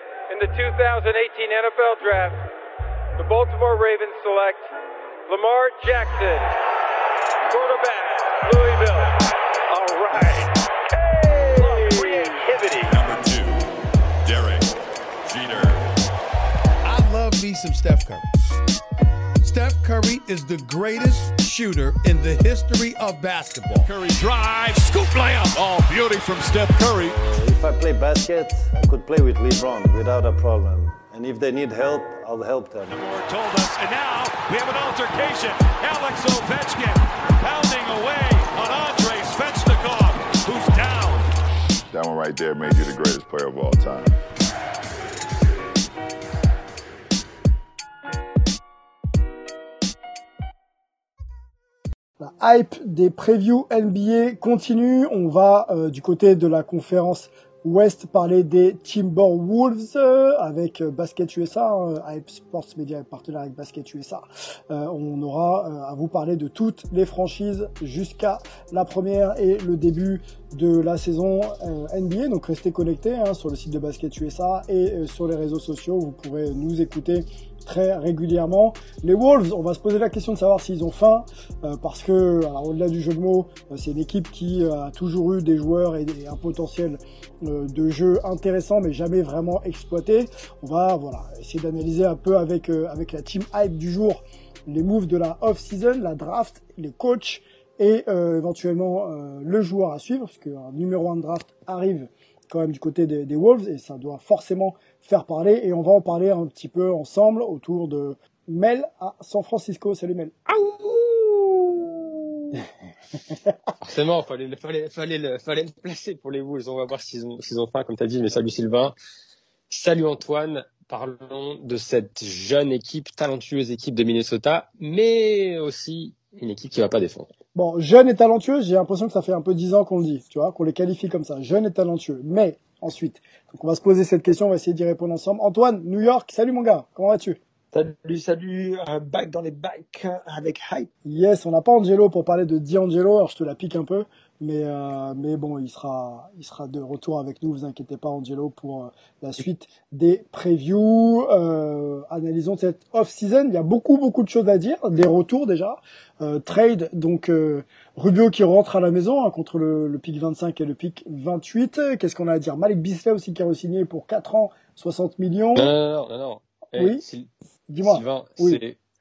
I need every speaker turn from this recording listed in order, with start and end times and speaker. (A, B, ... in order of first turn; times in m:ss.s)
0:00.3-0:02.4 A
0:03.2-0:04.7 A
0:05.3-0:06.6 A
0:07.5-0:10.5 A
0:10.1-0:10.4 B
0:11.0-0:13.2 A
0:12.9-0:13.7 B
0:14.2-0:14.7 B
0:15.2-0:15.9 B
0:16.9-0:18.3 C
0:19.4-0:20.3 B
0:19.4-0:23.9 C
0:21.2-0:27.2 B
0:27.1-0:32.9 D
0:32.9-0:41.3 B
0:41.9-0:44.2 E
0:52.2-1:50.3 F
1:50.5-1:52.5 G
1:53.8-1:58.9 G
1:59.7-2:07.3 G
2:07.5-2:17.4 F
2:17.7-2:20.9 H
2:21.0-2:45.7 F
2:45.5-2:47.3 G
2:46.8-2:47.0 F
2:47.7-2:48.6 F
2:47.8-2:48.8 G